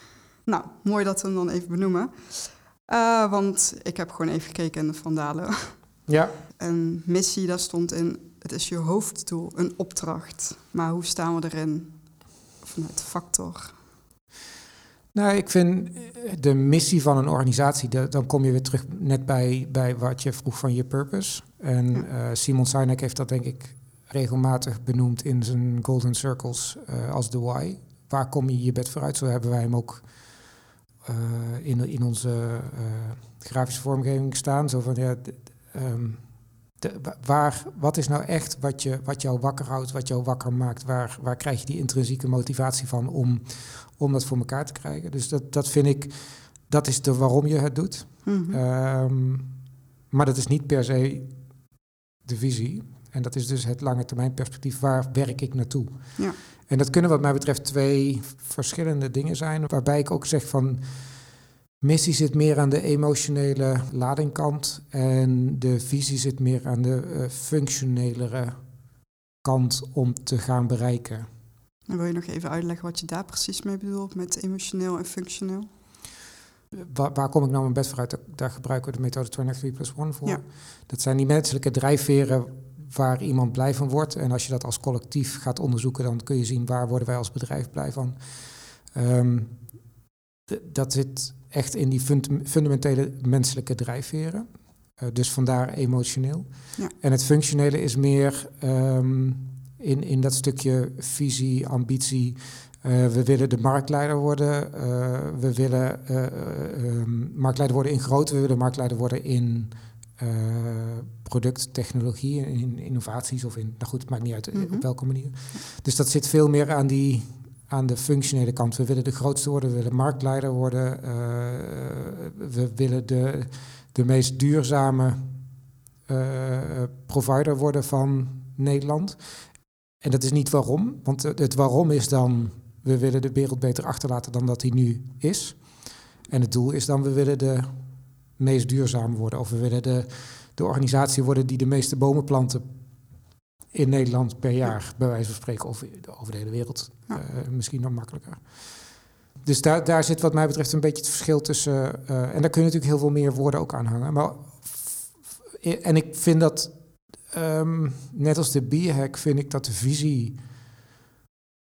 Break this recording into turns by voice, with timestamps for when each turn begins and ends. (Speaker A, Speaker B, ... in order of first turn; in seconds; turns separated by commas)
Speaker A: 0.5-5.9, Speaker B: 6.1-6.3, Speaker A: 6.6-13.8, Speaker B: 15.1-49.6, Speaker A: 48.2-48.6, Speaker B: 50.1-68.7, Speaker B: 69.3-71.3, Speaker A: 71.9-75.7, Speaker B: 76.7-89.9, Speaker B: 90.5-125.4, Speaker A: 114.5-115.6, Speaker B: 126.1-129.2, Speaker B: 130.0-137.7, Speaker B: 138.4-142.7, Speaker B: 143.7-160.4